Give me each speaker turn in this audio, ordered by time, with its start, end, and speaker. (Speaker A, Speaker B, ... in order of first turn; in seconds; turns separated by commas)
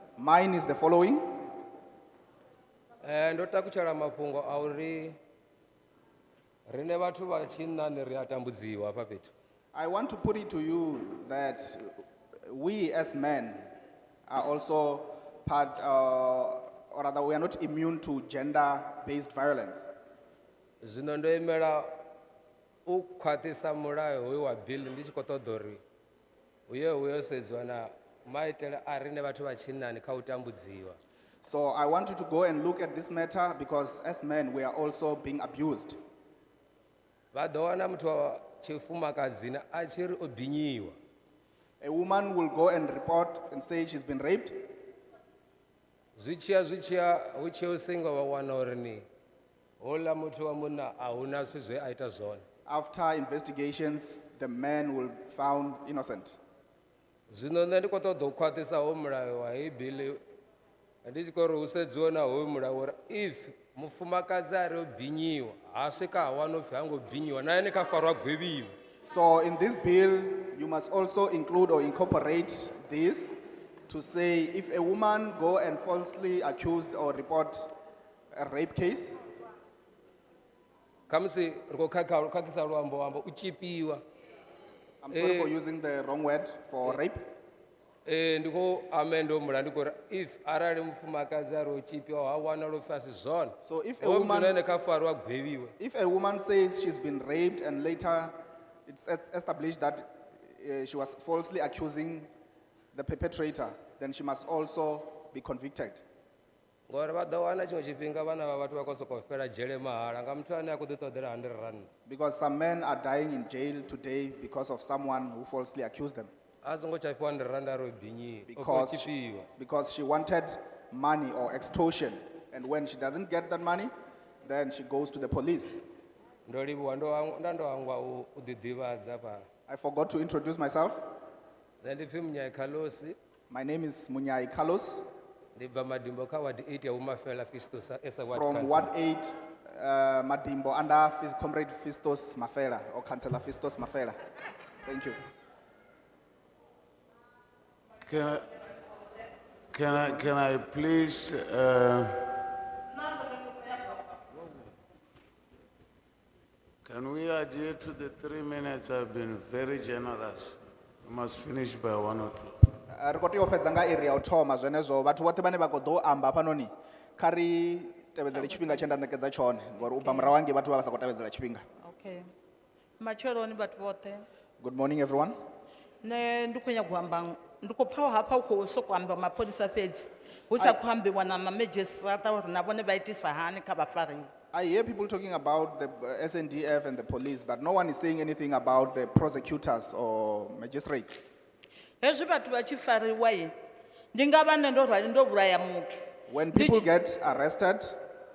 Speaker A: 0.2-1.3, Speaker B: 3.0-5.2, Speaker B: 6.7-9.3, Speaker A: 9.7-11.9, Speaker A: 12.5-13.6, Speaker A: 14.3-19.9, Speaker B: 20.8-22.0, Speaker B: 22.9-25.8, Speaker B: 26.7-31.0, Speaker A: 31.4-36.0, Speaker B: 37.3-40.9, Speaker A: 41.8-44.6, Speaker B: 46.2-49.0, Speaker B: 49.8-52.4, Speaker A: 52.7-56.4, Speaker B: 57.3-60.2, Speaker B: 61.0-68.7, Speaker A: 69.0-73.4, Speaker A: 73.9-77.7, Speaker A: 78.3-79.2, Speaker B: 81.1-84.0, Speaker A: 85.0-87.2, Speaker B: 85.1-85.5, Speaker B: 88.0-95.7, Speaker A: 93.6-94.5, Speaker A: 95.8-98.3, Speaker A: 98.9-102.3, Speaker A: 102.9-106.0, Speaker B: 106.9-111.9, Speaker A: 112.1-116.3, Speaker B: 116.6-119.5, Speaker A: 118.5-123.9, Speaker A: 124.4-125.8, Speaker B: 126.5-129.4, Speaker A: 129.7-131.0, Speaker B: 131.8-133.2, Speaker A: 133.5-135.1, Speaker B: 135.6-138.9, Speaker A: 138.3-144.2, Speaker A: 144.8-145.2, Speaker C: 148.1-148.5, Speaker C: 149.7-152.3, Speaker D: 153.0-154.1, Speaker C: 156.8-162.5, Speaker A: 162.9-171.6, Speaker D: 171.8-172.3, Speaker D: 173.0-174.2, Speaker A: 174.6-175.3, Speaker D: 176.0-184.3, Speaker A: 184.5-191.2, Speaker D: 192.0-193.5, Speaker D: 194.1-196.0, Speaker A: 196.3-198.0, Speaker D: 196.5-196.8